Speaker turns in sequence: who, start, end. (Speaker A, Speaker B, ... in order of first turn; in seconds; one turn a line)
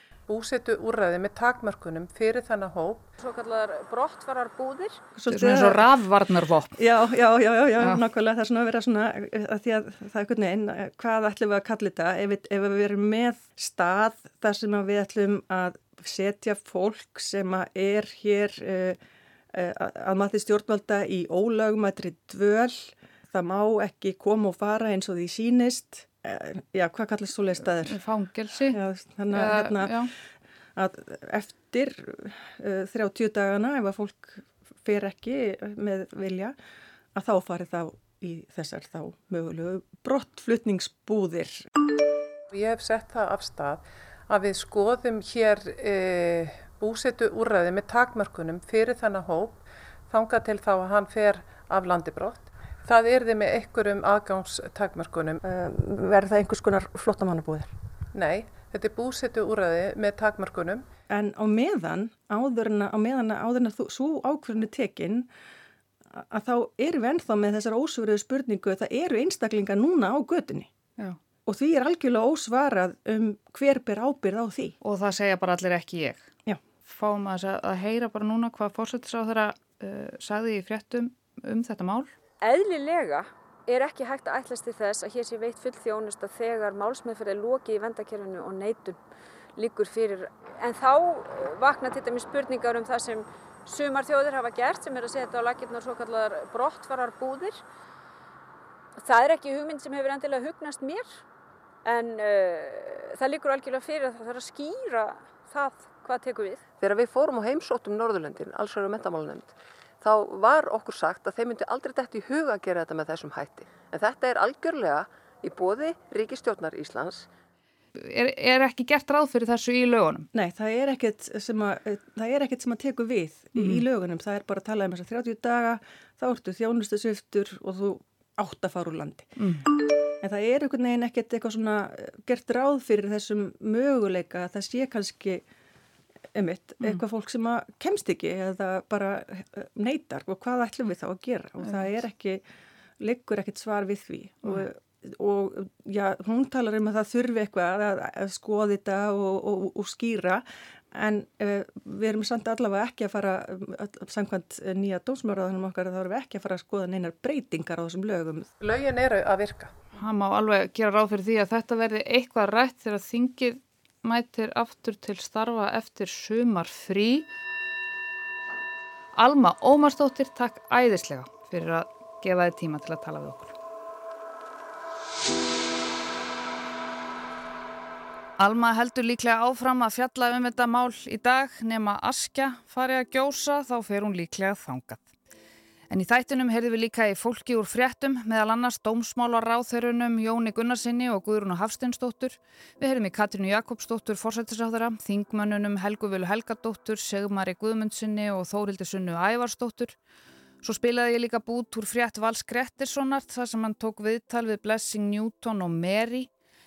Speaker A: 0.3-3.1
Speaker B: 3.2-5.0
Speaker C: 5.2-5.9
Speaker D: 5.3-6.8
Speaker C: 6.8-19.0
Speaker C: 19.5-28.0
Speaker D: 27.7-28.8
Speaker C: 28.7-30.0
Speaker D: 29.3-30.1
Speaker C: 30.8-36.5
Speaker C: 37.2-41.6
Speaker A: 42.5-55.4
Speaker C: 55.4-57.7
Speaker A: 58.1-60.9
Speaker C: 61.1-65.3
Speaker C: 66.2-70.7
Speaker C: 71.5-74.8
Speaker D: 74.8-76.2
Speaker D: 76.8-82.1
Speaker B: 82.4-89.0
Speaker B: 89.6-97.6
Speaker B: 99.0-101.2
Speaker B: 101.8-106.6
Speaker E: 106.8-117.3
Speaker D: 118.0-120.3
Speaker C: 120.3-129.3
Speaker D: 123.6-123.8
Speaker D: 129.4-129.7
Speaker C: 130.2-135.4
Speaker C: 136.3-142.4
Speaker C: 143.0-158.5
Speaker A: 158.6-159.7
Speaker D: 160.0-167.3
Speaker D: 169.2-173.5
Speaker D: 178.4-185.1
Speaker D: 185.9-200.0
Speaker D: 200.6-206.3